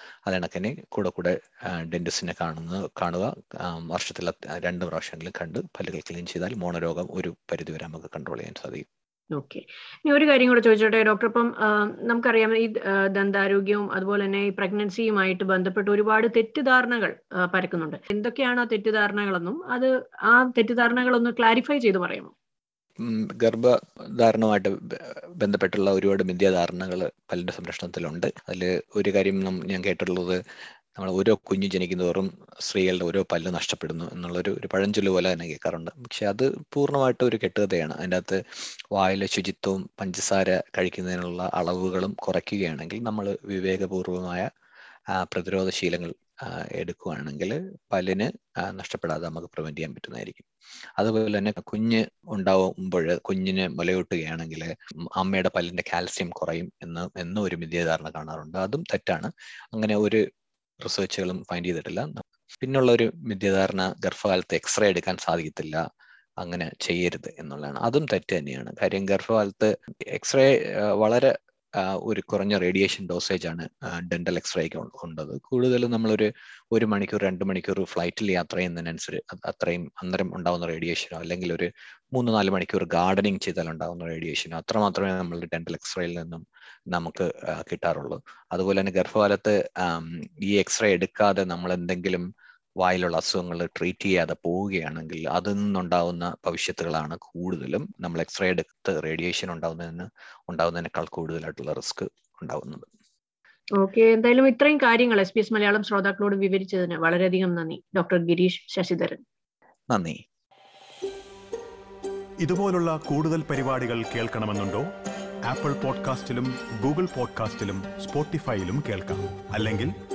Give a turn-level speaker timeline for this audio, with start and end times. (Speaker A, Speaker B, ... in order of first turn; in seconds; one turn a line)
Speaker A: 0.3-8.8
Speaker B: 9.3-22.3
Speaker A: 23.0-30.4
Speaker A: 31.0-38.4
Speaker A: 38.9-44.5
Speaker A: 45.1-50.5
Speaker A: 51.0-60.2
Speaker A: 60.8-65.8
Speaker A: 66.4-92.2
Speaker A: 92.8-102.9
Speaker B: 103.8-109.2
Speaker A: 109.9-110.2
Speaker C: 112.4-114.9
Speaker C: 115.4-119.9